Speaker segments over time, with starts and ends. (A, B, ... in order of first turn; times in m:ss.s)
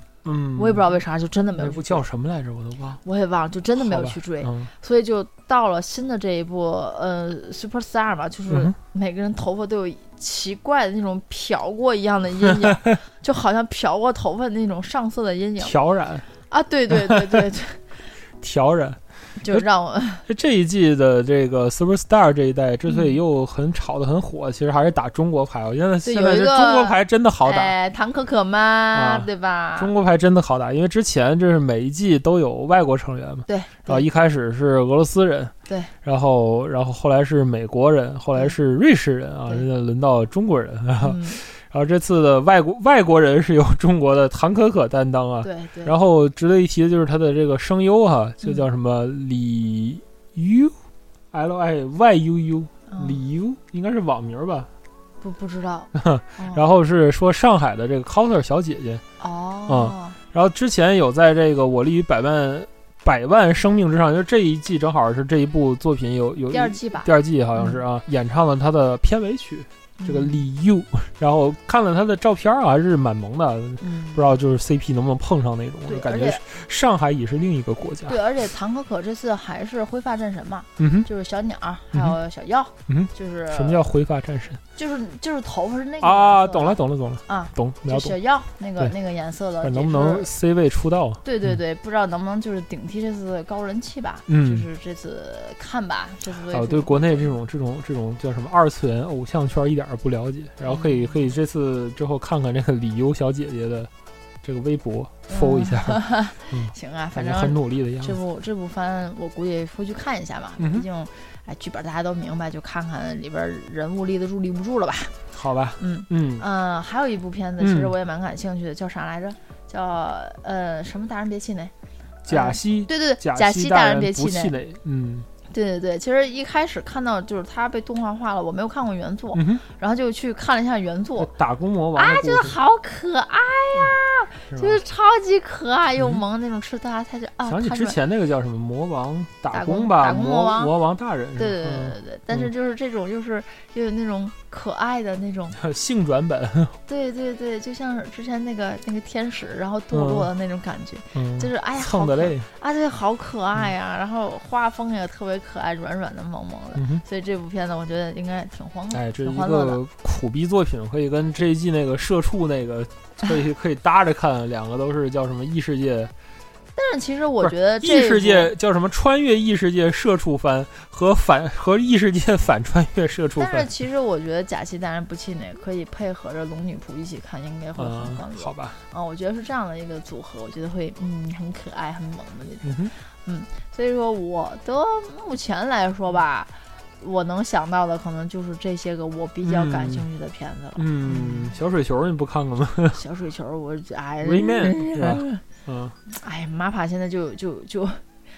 0:00.2-0:01.0 A
0:00.6-0:02.0 B
0:01.6-0:03.0 A
0:03.0-0:15.8 B
0:03.8-0:04.7 A
0:08.5-0:08.8 A
0:12.5-0:12.9 A
0:15.6-0:16.3 A
0:16.5-0:17.8 B
0:16.9-0:17.4 A
0:18.4-0:19.7 A
0:19.4-0:20.2 B
0:20.3-0:27.8 A
0:22.9-0:23.2 B
0:26.0-0:29.9 B
0:28.9-0:35.5 A
0:33.5-0:34.1 B
0:35.7-0:35.9 B
0:36.0-0:50.7 A
0:41.0-0:41.4 B
0:45.4-0:46.0 B
0:51.3-0:54.7 A
0:52.9-0:53.2 B
0:55.2-0:56.6 B
0:56.0-0:59.0 A
0:59.2-1:00.2 B
0:59.7-1:18.2 A
1:06.5-1:07.8 B
1:10.0-1:10.4 B
1:13.8-1:14.3 B
1:15.9-1:16.4 B
1:18.1-1:23.9 B
1:20.8-1:21.1 A
1:22.9-1:24.6 A
1:24.8-1:30.3 B
1:26.0-1:28.2 A
1:29.6-1:31.2 A
1:31.2-1:37.3 B
1:34.3-1:34.7 A
1:36.5-1:43.9 A
1:40.6-1:41.3 B
1:44.4-1:48.2 A
1:45.3-1:55.2 B
1:50.6-1:50.9 A
1:55.3-1:56.5 A
1:55.8-2:01.7 B
1:57.6-1:57.9 A
2:02.2-2:05.3 A
2:02.3-2:04.6 B
2:05.5-2:11.3 B
2:09.3-2:09.6 A
2:11.2-2:12.6 A
2:12.0-2:18.0 B
2:14.5-2:14.8 A
2:17.5-2:22.5 A
2:19.5-2:20.7 B
2:21.4-2:25.6 B
2:25.6-2:26.8 A
2:26.9-2:39.8 B
2:29.9-2:30.3 A
2:31.2-2:32.5 A
2:36.8-2:37.0 A
2:38.9-2:46.1 A
2:46.8-2:48.5 B
2:47.4-2:53.7 A
2:53.4-3:11.6 B
2:57.8-2:58.8 A
3:02.6-3:02.9 A
3:09.4-3:10.1 A
3:10.8-3:13.0 A
3:12.9-3:15.4 B
3:14.2-3:16.0 A
3:16.1-3:18.0 B